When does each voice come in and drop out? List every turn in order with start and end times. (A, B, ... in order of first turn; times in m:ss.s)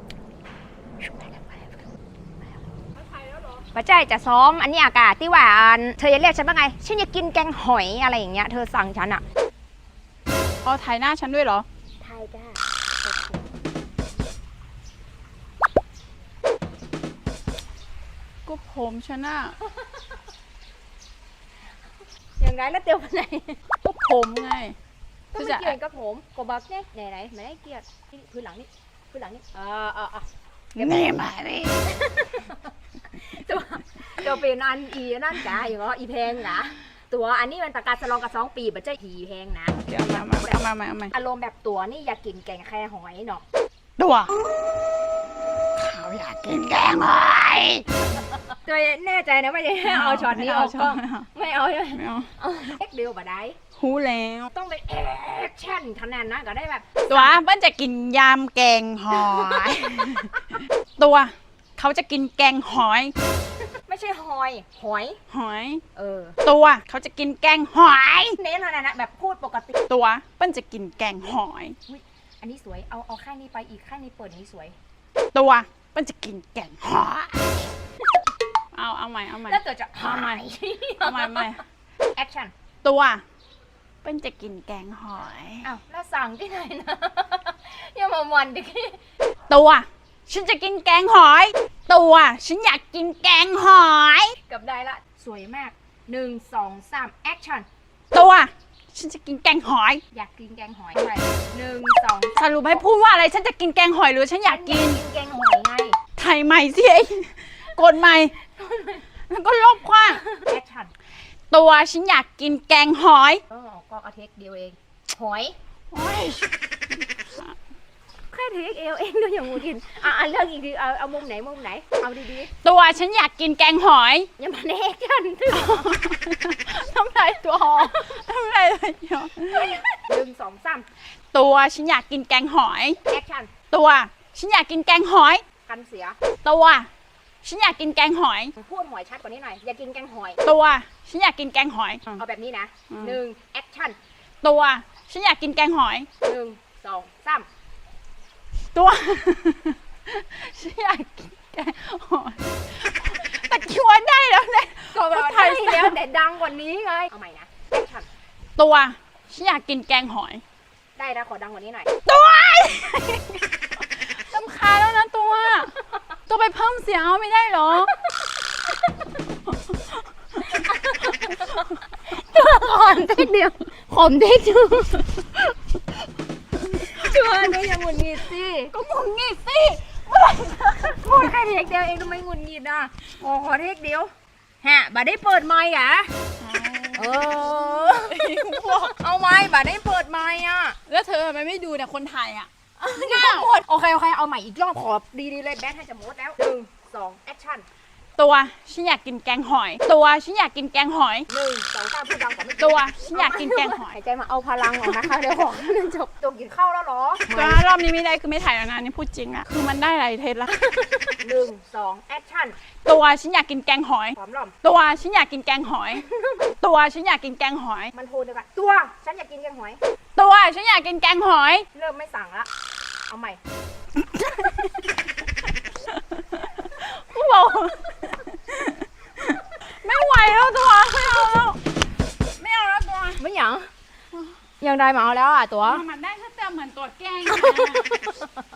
0:01.0-0:01.9 A
0:03.5-0:09.2 A
0:10.6-0:11.6 B
0:12.0-0:13.6 A
0:18.4-0:19.6 B
0:19.6-0:20.0 A
0:22.4-0:23.6 A
0:23.8-0:24.8 B
0:25.3-0:31.2 A
0:25.3-0:25.7 B
0:30.8-0:31.9 B
0:31.8-0:43.4 A
0:39.7-0:41.1 B
0:44.0-0:44.3 B
0:45.8-0:47.9 B
0:48.1-0:53.6 A
0:49.8-0:51.3 B
0:51.9-0:52.3 B
0:53.8-0:54.5 B
0:54.5-0:57.4 A
0:57.1-1:03.1 B
0:59.1-1:00.4 A
1:03.8-1:05.2 A
1:05.3-1:05.8 B
1:05.9-1:06.4 A
1:06.4-1:08.4 B
1:08.4-1:09.8 A
1:09.9-1:11.8 B
1:11.9-1:14.8 A
1:15.3-1:17.6 B
1:18.7-1:20.4 B
1:19.4-1:21.6 A
1:21.0-1:21.6 B
1:22.2-1:22.5 A
1:22.8-1:23.2 B
1:24.0-1:25.7 B
1:25.6-1:29.0 A
1:29.5-1:34.4 B
1:34.5-1:37.7 A
1:38.1-1:40.0 B
1:40.1-1:42.8 A
1:42.4-1:45.0 B
1:44.4-1:46.0 A
1:46.2-1:48.3 B
1:48.4-1:49.0 A
1:49.3-1:50.2 B
1:50.1-1:50.9 A
1:51.5-1:53.4 B
1:53.5-1:55.6 A
1:55.9-1:56.5 B
1:57.2-1:57.5 B
1:58.3-2:02.5 A
2:02.6-2:04.3 B
2:04.4-2:06.0 A
2:05.5-2:09.8 B
2:09.5-2:10.9 A
2:11.3-2:13.0 B
2:13.0-2:13.5 A
2:13.7-2:15.4 B
2:15.6-2:16.2 A
2:16.4-2:16.9 B
2:17.4-2:18.5 B
2:18.6-2:20.4 A
2:20.4-2:22.2 B
2:22.2-2:24.0 A
2:22.9-2:23.2 B
2:24.4-2:26.1 B
2:26.2-2:27.4 A
2:28.7-2:36.0 B
2:34.9-2:38.1 A
2:38.6-2:40.4 B
2:41.0-2:41.9 A
2:42.0-2:48.0 B
2:49.5-2:49.8 B
2:50.5-2:55.4 A
2:56.6-2:57.1 B
2:56.8-2:58.7 A
2:58.7-3:00.0 B
3:00.1-3:06.1 A
3:06.4-3:08.9 B
3:07.0-3:10.8 A
3:10.9-3:13.5 B
3:12.8-3:17.6 A
3:18.2-3:21.3 B
3:21.3-3:27.6 A
3:22.6-3:23.9 B
3:27.3-3:30.5 B
3:30.6-3:32.6 A
3:32.8-3:36.0 B
3:34.2-3:34.5 A
3:35.9-3:36.5 A
3:36.6-3:37.9 B
3:37.9-3:39.8 A
3:40.2-3:41.7 B
3:41.7-3:42.5 A
3:43.1-3:43.4 A
3:44.0-3:44.9 B
3:45.8-3:51.6 B
3:52.4-3:53.2 B
3:53.2-3:53.7 A
3:54.6-3:55.8 A
3:55.6-3:58.0 B
3:57.3-3:58.3 A